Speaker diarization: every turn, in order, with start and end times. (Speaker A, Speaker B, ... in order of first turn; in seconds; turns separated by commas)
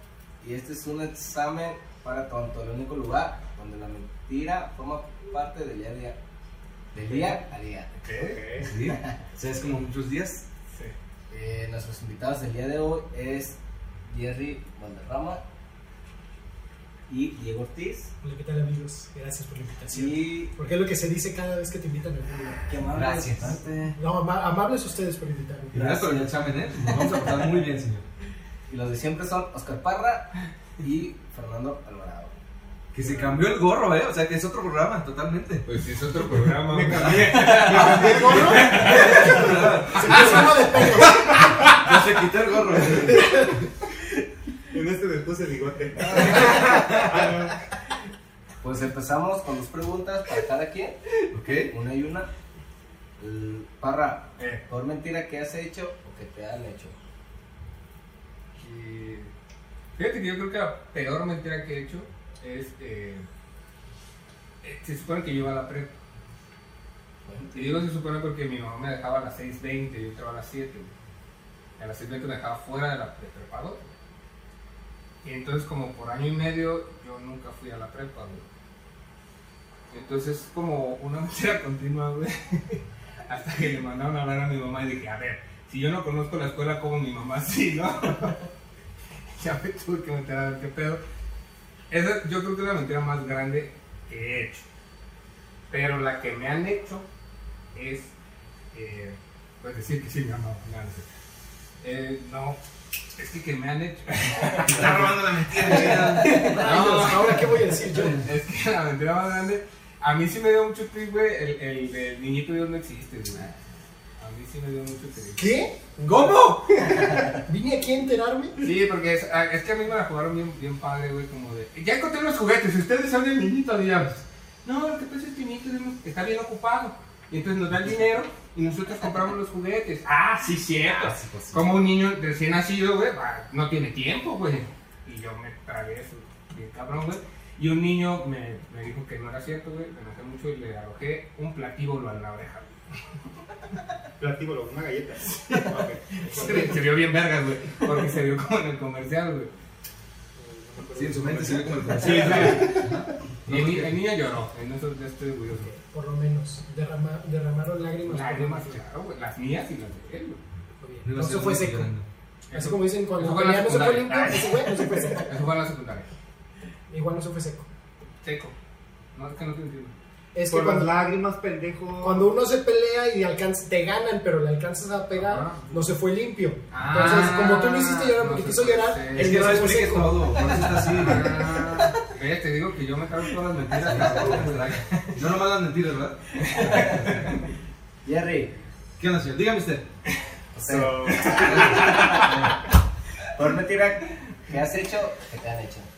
Speaker A: 0.4-6.2, Speaker A: 6.9-8.0, Speaker B: 7.1-7.3, Speaker C: 8.1-8.4, Speaker D: 8.1-8.7, Speaker B: 8.6-10.4, Speaker A: 8.8-9.2, Speaker A: 11.3-15.4, Speaker A: 17.1-18.1, Speaker E: 18.2-22.6, Speaker A: 19.9-20.5, Speaker A: 22.6-23.9, Speaker B: 22.9-23.9, Speaker E: 23.9-26.0, Speaker B: 25.7-28.0, Speaker A: 25.8-26.3, Speaker A: 28.7-32.3, Speaker B: 32.9-35.6, Speaker C: 35.6-39.4, Speaker D: 36.7-39.9, Speaker E: 37.7-41.3, Speaker B: 38.5-43.5, Speaker E: 43.1-43.5, Speaker D: 44.7-47.6, Speaker C: 46.1-46.6, Speaker B: 46.5-46.8, Speaker A: 48.6-51.0, Speaker B: 51.3-51.7, Speaker A: 51.6-52.3, Speaker A: 53.2-56.9, Speaker C: 58.5-59.3, Speaker C: 60.0-63.3, Speaker C: 64.6-65.9, Speaker A: 67.2-67.7, Speaker C: 67.5-70.9, Speaker C: 71.8-73.8, Speaker C: 75.2-78.5, Speaker C: 79.9-88.4, Speaker C: 89.4-91.0, Speaker C: 91.9-94.6, Speaker C: 95.7-97.0, Speaker C: 97.7-98.1, Speaker C: 98.7-101.0, Speaker C: 101.8-102.6, Speaker C: 103.2-113.5, Speaker D: 104.7-106.2, Speaker B: 105.6-106.7, Speaker E: 106.3-108.2, Speaker C: 114.2-117.2, Speaker E: 115.4-115.8, Speaker E: 117.3-118.6, Speaker C: 118.6-142.8, Speaker B: 130.5-131.7, Speaker D: 144.2-146.7, Speaker C: 146.2-149.5, Speaker D: 150.5-152.8, Speaker C: 150.8-152.9, Speaker B: 150.9-153.9, Speaker C: 153.4-155.7, Speaker E: 155.6-158.8, Speaker C: 158.0-160.4, Speaker E: 160.8-161.9, Speaker B: 161.0-162.1, Speaker C: 162.5-166.1, Speaker E: 162.5-165.4, Speaker E: 166.9-167.7, Speaker C: 168.2-168.5, Speaker C: 169.1-169.9, Speaker E: 170.3-170.9, Speaker D: 170.5-172.4, Speaker E: 172.0-180.4, Speaker C: 175.1-175.9, Speaker C: 176.7-179.7, Speaker B: 179.1-181.5, Speaker C: 180.8-185.2, Speaker D: 181.0-181.9, Speaker B: 183.7-186.2, Speaker C: 186.4-187.4, Speaker A: 186.5-187.1, Speaker A: 188.0-188.5, Speaker B: 189.0-189.8, Speaker A: 190.5-192.6, Speaker D: 190.7-191.8, Speaker B: 190.7-192.4, Speaker A: 193.3-195.9